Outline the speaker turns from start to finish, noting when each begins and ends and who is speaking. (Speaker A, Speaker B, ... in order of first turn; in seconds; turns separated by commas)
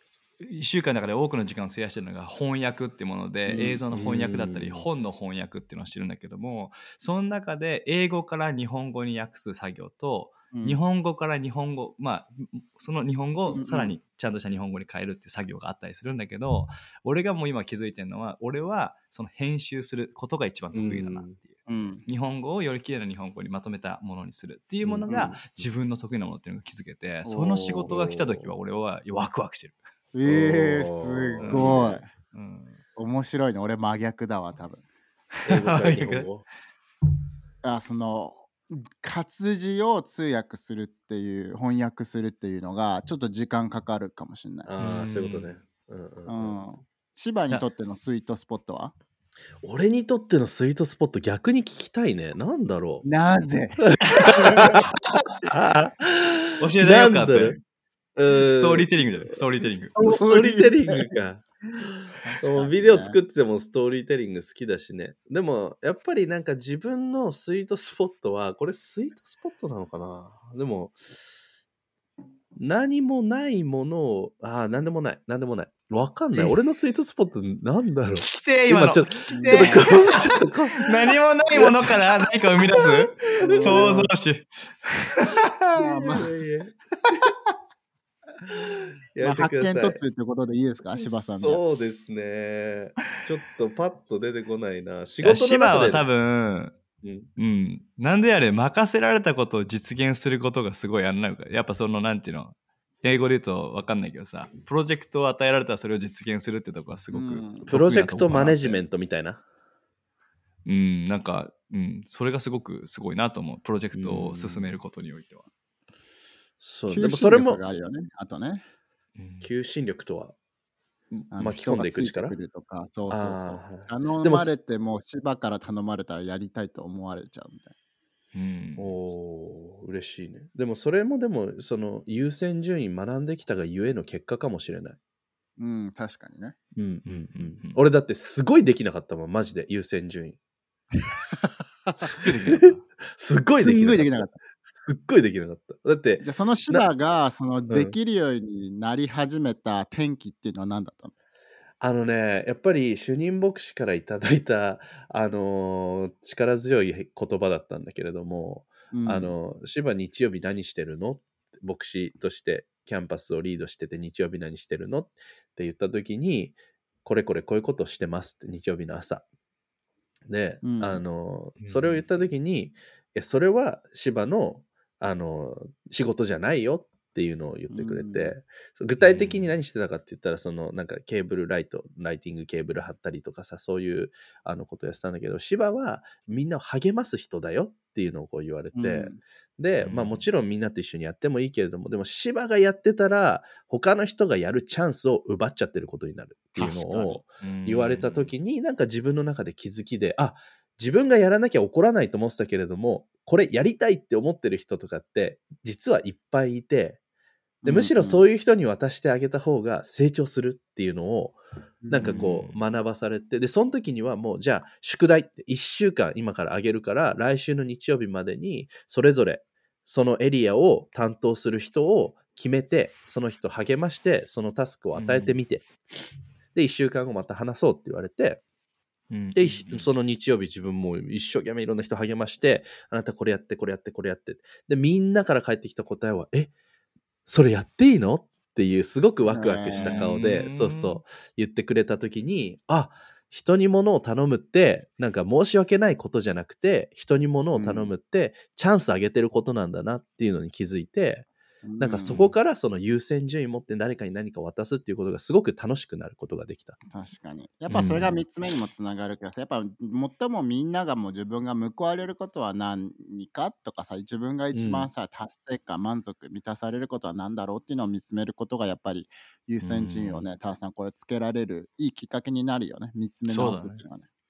Speaker A: 0.4-21.5, Speaker B: 3.5-3.8, Speaker C: 3.9-4.8, Speaker B: 10.5-10.8, Speaker B: 13.5-14.0, Speaker C: 20.7-21.4, Speaker B: 21.7-22.0, Speaker A: 22.0-29.8, Speaker C: 24.8-25.6, Speaker B: 25.1-25.4, Speaker B: 27.2-27.9, Speaker C: 27.8-28.5, Speaker B: 30.1-32.0, Speaker C: 30.2-31.9, Speaker A: 31.4-32.8, Speaker B: 33.0-34.8, Speaker C: 35.5-36.4, Speaker A: 35.5-36.3, Speaker B: 37.6-44.7, Speaker C: 44.6-46.6, Speaker A: 44.8-45.6, Speaker B: 46.3-48.9, Speaker C: 49.6-53.0, Speaker B: 53.0-54.8, Speaker C: 54.4-54.8, Speaker C: 55.5-57.6, Speaker A: 56.6-57.6, Speaker C: 58.1-59.4, Speaker A: 58.3-59.9, Speaker B: 59.9-61.0, Speaker C: 60.0-71.0, Speaker B: 62.2-63.2, Speaker C: 72.5-82.0, Speaker A: 78.2-86.2, Speaker B: 79.3-79.9, Speaker B: 83.4-84.1, Speaker C: 83.5-84.1, Speaker B: 85.8-86.2, Speaker C: 86.1-86.7, Speaker C: 88.5-90.0, Speaker B: 89.2-91.6, Speaker C: 90.9-96.1, Speaker A: 95.2-96.7, Speaker C: 97.0-97.3, Speaker A: 97.4-108.8, Speaker B: 107.1-107.7, Speaker C: 107.7-109.4, Speaker A: 110.7-115.5, Speaker C: 113.9-114.7, Speaker C: 116.6-117.6, Speaker B: 116.9-118.6, Speaker A: 119.2-119.5, Speaker C: 119.4-120.3, Speaker C: 121.1-122.3, Speaker B: 121.3-127.7, Speaker C: 123.1-124.5, Speaker A: 128.3-128.9, Speaker C: 128.8-135.0, Speaker B: 135.6-136.6, Speaker C: 136.8-140.4, Speaker A: 137.3-137.8, Speaker A: 142.0-142.8, Speaker C: 143.1-144.1, Speaker B: 143.6-144.4, Speaker C: 144.6-146.8, Speaker B: 146.2-151.1, Speaker C: 147.7-147.9, Speaker C: 151.8-169.2, Speaker B: 158.9-159.3, Speaker C: 170.3-207.0, Speaker B: 170.6-171.0, Speaker A: 171.6-172.0, Speaker B: 177.7-178.3, Speaker A: 179.0-179.5, Speaker B: 188.7-189.2, Speaker A: 189.8-190.2, Speaker B: 196.6-197.2, Speaker A: 197.4-198.3, Speaker B: 207.6-208.3, Speaker C: 207.7-211.4, Speaker B: 211.8-212.3, Speaker C: 211.9-225.7, Speaker A: 212.0-212.6, Speaker A: 224.9-225.3, Speaker C: 226.5-228.4, Speaker A: 229.1-229.9, Speaker C: 229.3-236.5, Speaker C: 237.3-251.3, Speaker B: 239.3-240.1, Speaker A: 239.7-241.0, Speaker B: 247.5-247.9, Speaker B: 251.6-252.3, Speaker C: 251.8-256.8, Speaker B: 256.9-274.1, Speaker C: 257.7-258.1, Speaker C: 264.5-264.9, Speaker A: 269.6-270.2, Speaker A: 273.3-273.8